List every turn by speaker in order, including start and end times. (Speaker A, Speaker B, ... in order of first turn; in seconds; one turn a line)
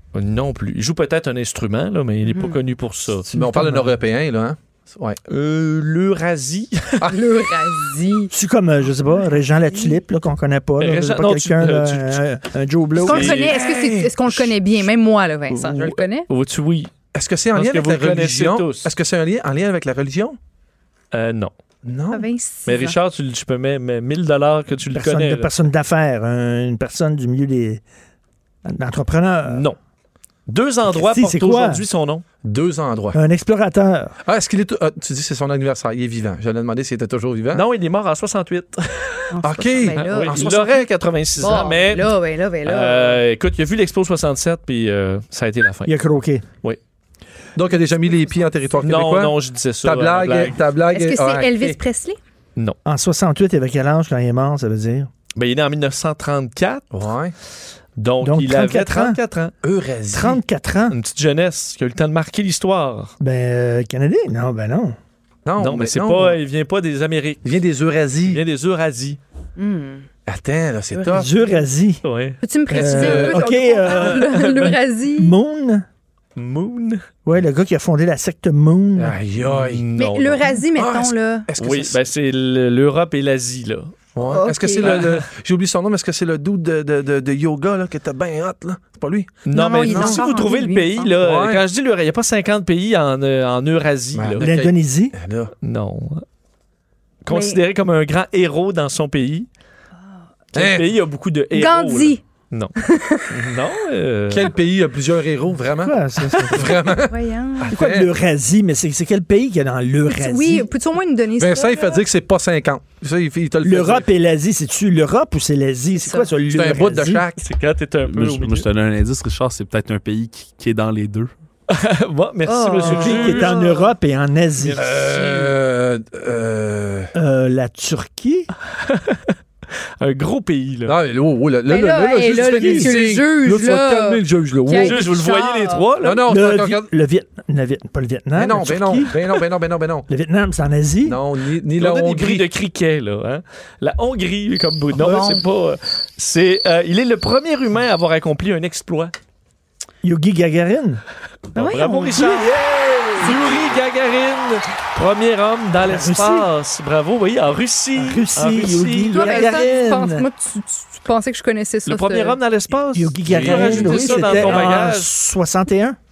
Speaker A: 0.1-3.3
Speaker B: 3.3-3.9
Speaker C: 3.3-5.2
Speaker A: 5.3-7.1
Speaker D: 7.1-8.3
Speaker B: 8.3-13.3
Speaker A: 10.8-12.2
Speaker D: 13.0-16.2
Speaker A: 13.1-13.6
Speaker C: 13.2-14.3
Speaker A: 15.5-16.9
Speaker C: 17.1-20.4
Speaker A: 17.5-18.9
Speaker A: 21.1-21.5
Speaker C: 21.8-22.2
Speaker D: 22.1-22.9
Speaker A: 22.6-25.5
Speaker B: 24.9-27.8
Speaker B: 28.6-29.6
Speaker A: 29.4-29.8
Speaker A: 30.5-32.2
Speaker B: 30.9-31.8
Speaker C: 32.4-33.2
Speaker B: 33.1-34.1
Speaker C: 34.2-37.6
Speaker A: 37.5-39.3
Speaker D: 39.3-40.6
Speaker C: 39.4-40.8
Speaker A: 39.9-42.1
Speaker D: 41.4-43.2
Speaker A: 42.6-46.0
Speaker B: 45.9-46.4
Speaker C: 47.5-51.8
Speaker A: 48.8-50.6
Speaker D: 50.9-52.2
Speaker B: 52.9-55.1
Speaker A: 55.4-56.8
Speaker C: 56.9-57.3
Speaker A: 58.0-59.5
Speaker B: 58.2-59.2
Speaker C: 59.6-60.4
Speaker B: 60.1-60.9
Speaker A: 60.9-63.1
Speaker B: 63.2-65.0
Speaker C: 65.4-66.4
Speaker A: 65.6-67.4
Speaker C: 67.4-68.4
Speaker A: 68.3-69.2
Speaker D: 69.6-70.1
Speaker C: 70.3-71.3
Speaker D: 70.9-71.6
Speaker B: 71.1-72.0
Speaker A: 72.0-72.4
Speaker D: 72.4-75.3
Speaker B: 72.7-74.5
Speaker C: 72.8-73.4
Speaker A: 74.0-74.7
Speaker B: 75.2-75.8
Speaker A: 76.3-77.0
Speaker B: 77.2-79.2
Speaker C: 79.0-79.8
Speaker A: 79.4-80.6
Speaker D: 80.0-81.5
Speaker C: 80.8-82.0
Speaker A: 81.6-83.9
Speaker C: 84.1-90.2
Speaker D: 84.3-84.9
Speaker A: 84.8-85.2
Speaker A: 89.5-94.5
Speaker D: 89.5-91.1
Speaker C: 91.2-91.6
Speaker C: 94.1-95.5
Speaker B: 94.4-95.1
Speaker A: 95.6-96.2
Speaker A: 97.2-99.5
Speaker D: 97.3-97.6
Speaker A: 100.5-102.7
Speaker C: 100.5-100.9
Speaker D: 101.5-102.2
Speaker D: 102.8-103.3
Speaker A: 103.3-104.5
Speaker C: 104.3-108.1
Speaker B: 105.8-106.7
Speaker D: 107.0-107.7
Speaker B: 107.7-110.7
Speaker D: 110.1-112.0
Speaker C: 111.4-114.1
Speaker B: 113.6-117.2
Speaker D: 116.0-116.3
Speaker C: 116.5-117.4
Speaker A: 117.4-118.7
Speaker E: 118.0-121.3
Speaker A: 121.7-123.5
Speaker D: 122.5-123.9
Speaker B: 122.8-124.8
Speaker A: 124.6-125.5
Speaker C: 124.7-127.1
Speaker B: 127.1-128.5
Speaker A: 128.8-129.3
Speaker A: 130.0-130.9
Speaker C: 130.8-135.1
Speaker D: 131.7-135.8
Speaker B: 132.6-132.9
Speaker A: 134.8-136.2
Speaker C: 136.0-136.9
Speaker B: 136.2-139.1
Speaker C: 138.3-140.1
Speaker B: 140.1-141.2
Speaker C: 141.0-142.5
Speaker A: 141.8-149.1
Speaker D: 145.0-145.4
Speaker B: 150.0-151.0
Speaker D: 151.6-152.5
Speaker A: 151.6-159.6
Speaker B: 155.8-156.5
Speaker B: 157.9-160.2
Speaker D: 159.1-162.4
Speaker A: 161.9-165.1
Speaker B: 162.9-166.0
Speaker C: 163.2-164.8